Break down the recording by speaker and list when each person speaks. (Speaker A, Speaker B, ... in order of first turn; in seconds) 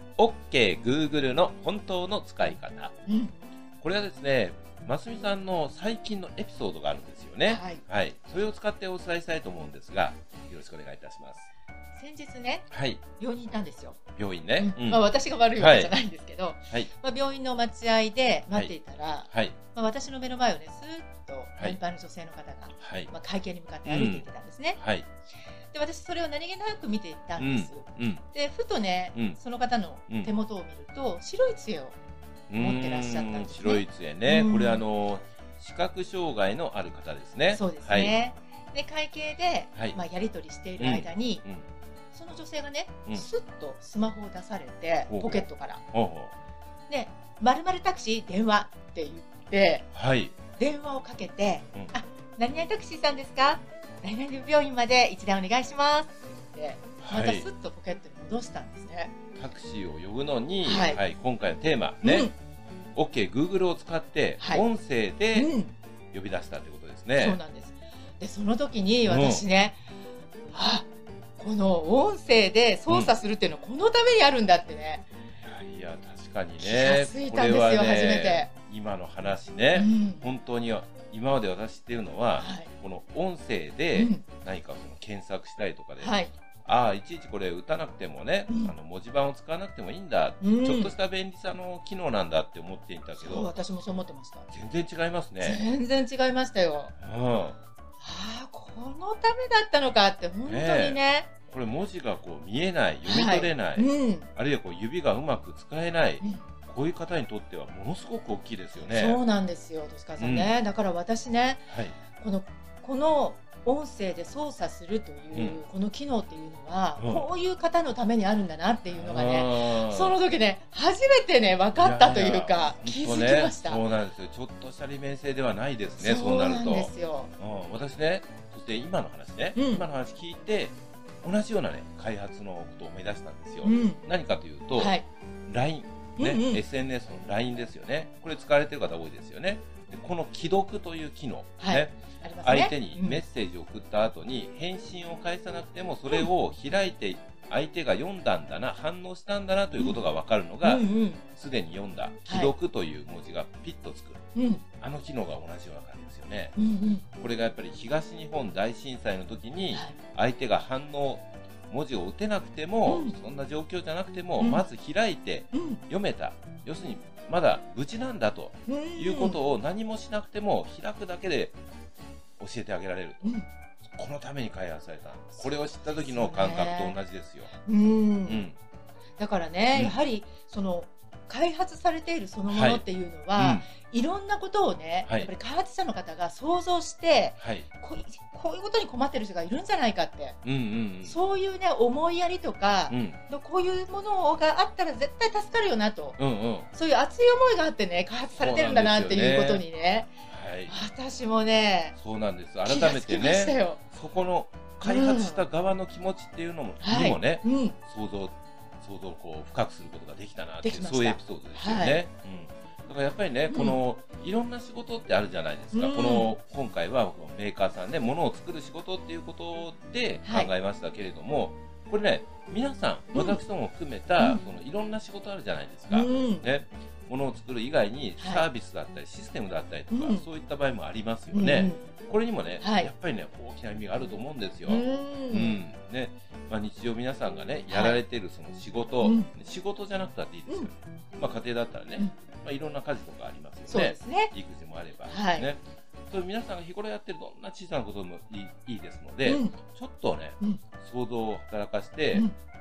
Speaker A: 0.2-2.9, 3.8-11.5, 12.7-13.0, 14.2-15.0, 15.6-15.9, 19.3-19.6, 22.8-23.1, 23.8-24.2, 24.8-25.1, 27.4-28.2, 32.5-38.2, 40.8-41.6, 45.1-46.3, 49.9-50.3, 57.0-57.5, 59.4-62.3, 62.9-65.5, 66.1-67.4, 69.0-69.4, 72.9-73.1, 75.4-93.5, 94.5-95.7, 97.0-97.6, 100.5-109.2, 110.2-110.5, 111.7-112.0, 115.3-115.6, 117.0-117.3, 118.9-120.2, 121.8-154.2, 154.8-156.6, 157.2-171.6, 172.4-173.3, 173.8-177.5, 178.2-178.6, 179.7-180.0, 182.5-182.8, 183.3-183.7, 187.4-187.7, 190.4-191.1, 192.9-193.2, 196.2-196.7, 198.4-199.6, 200.3-200.7, 202.0-252.3
Speaker B: 3.1-3.3, 7.5-7.8, 11.9-14.0, 14.6-24.8, 25.7-32.0, 32.6-34.8, 37.5-41.4, 42.1-45.8, 46.9-49.9, 50.5-59.1, 60.6-61.0, 62.0-62.3, 64.4-64.6, 65.3-65.7, 67.2-69.8, 70.5-75.1, 76.6-78.5, 79.7-80.2, 82.4-82.7, 83.9-84.2, 86.0-86.3, 90.4-90.9, 93.1-94.5, 95.4-96.9, 98.0-101.3, 103.0-104.3, 106.2-106.5, 108.8-111.6, 112.1-123.8, 126.0-127.3, 129.5-129.8, 133.6-134.0, 134.7-135.1, 136.2-136.6, 141.6-143.2, 149.8-150.0, 150.6-151.2, 152.2-152.5, 154.3-154.6, 156.6-157.0, 162.8-163.2, 164.4-164.7, 165.5-165.8, 168.7-169.4, 173.2-173.5, 175.4-177.0, 177.6-178.5, 179.2-190.4, 191.0-196.2, 196.7-200.1, 200.7-201.9, 202.7-203.8, 204.8-205.4, 206.8-207.8, 210.6-212.0, 213.5-213.8, 215.7-216.3, 220.2-220.5, 223.1-223.4, 225.9-226.5, 228.2-228.4, 229.9-230.2, 231.3-231.8, 232.6-232.9, 234.7-235.6, 237.7-238.0, 239.0-239.3, 243.7-244.3, 245.1-245.5, 249.2-249.6